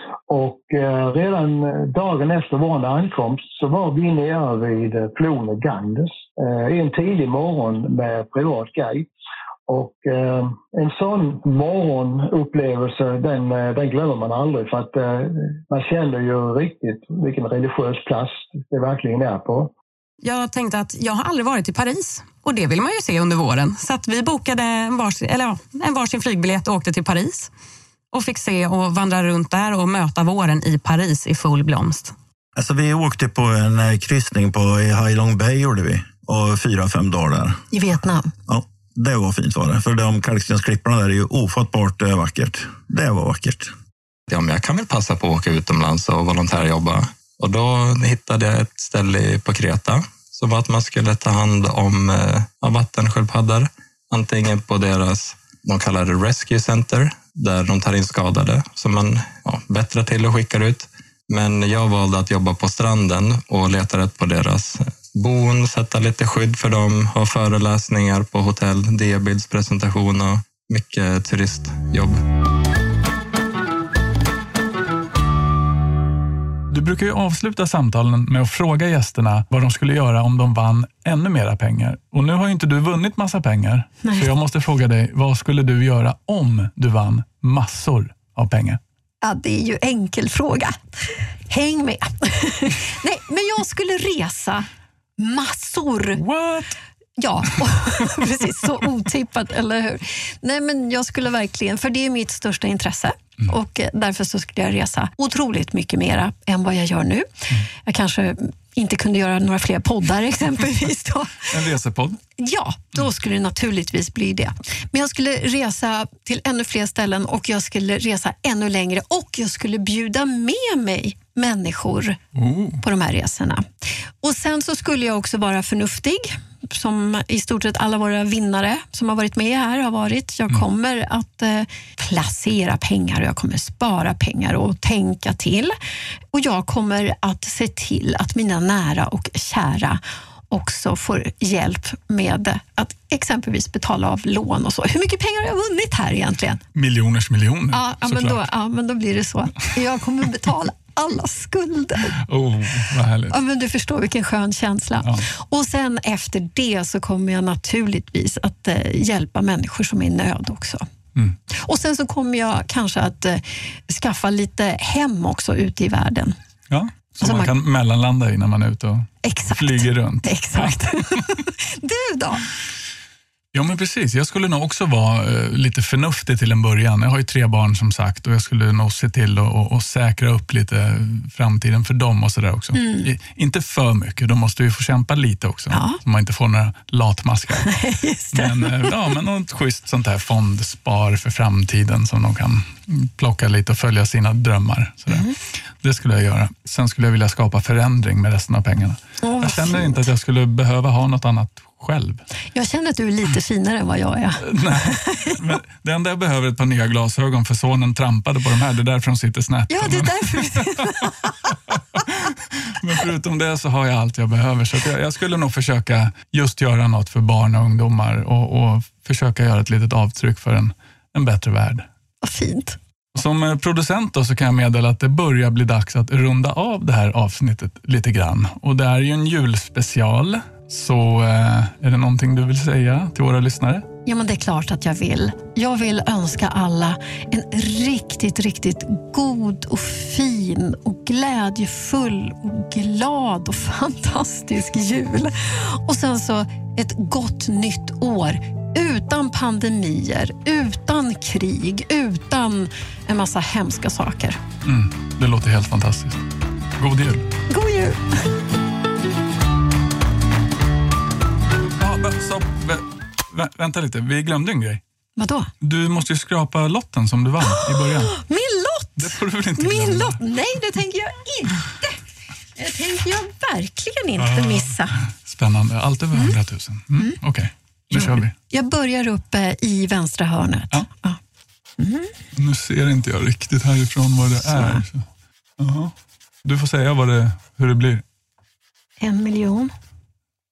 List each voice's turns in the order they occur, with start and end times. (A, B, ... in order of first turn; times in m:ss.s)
0:00.3-0:09.1 A
0:09.7-0:19.7 A
0:20.2-0:27.5 B
0:28.1-0:32.2 B
0:32.6-0:37.6 C
0:37.7-0:38.3 D
0:38.5-0:43.7 C
0:44.3-1:12.2 E
1:16.7-1:28.8 F
1:29.2-1:30.8 D
1:31.5-1:34.7 D
1:35.2-1:36.2 D
1:36.2-1:36.8 F
1:37.2-1:51.6 D
1:51.5-1:52.2 F
1:52.4-2:02.2 D
2:02.4-2:02.8 F
2:02.8-2:03.6 D
2:04.2-2:15.8 D
2:16.3-2:26.6 D
2:26.8-2:28.5 F
2:27.7-2:32.2 D
2:32.1-2:33.4 F
2:33.3-2:40.8 D
2:41.5-2:46.4 D
2:46.7-2:51.4 F
2:47.2-2:47.5 D
2:49.2-2:52.5 D
2:53.5-3:07.7 F
3:02.8-3:03.1 D
3:05.7-3:06.0 D
3:07.6-3:08.9 D
3:08.3-3:15.2 F
3:15.1-3:15.4 D
3:15.8-3:22.2 F
3:19.2-3:20.1 D
3:22.5-3:25.4 D
3:24.4-3:31.1 F
3:29.7-3:31.5 D
3:32.1-3:41.8 F
3:42.2-3:42.8 D
3:43.2-3:53.9 F
3:54.1-4:14.4 D
4:14.6-4:16.2 F
4:16.8-4:17.2 F
4:17.5-4:18.0 D
4:21.8-4:24.8 F
4:25.2-4:25.5 D
4:25.6-4:28.2 F
4:28.1-4:32.0 D
4:29.0-4:30.2 F
4:32.6-4:35.0 D
4:34.2-4:38.3 F
4:37.9-4:41.2 D
4:41.8-4:42.1 D
4:42.4-4:45.1 F
4:44.5-4:44.8 D
4:45.6-4:45.9 F
4:46.4-4:48.0 F
4:49.0-4:49.7 D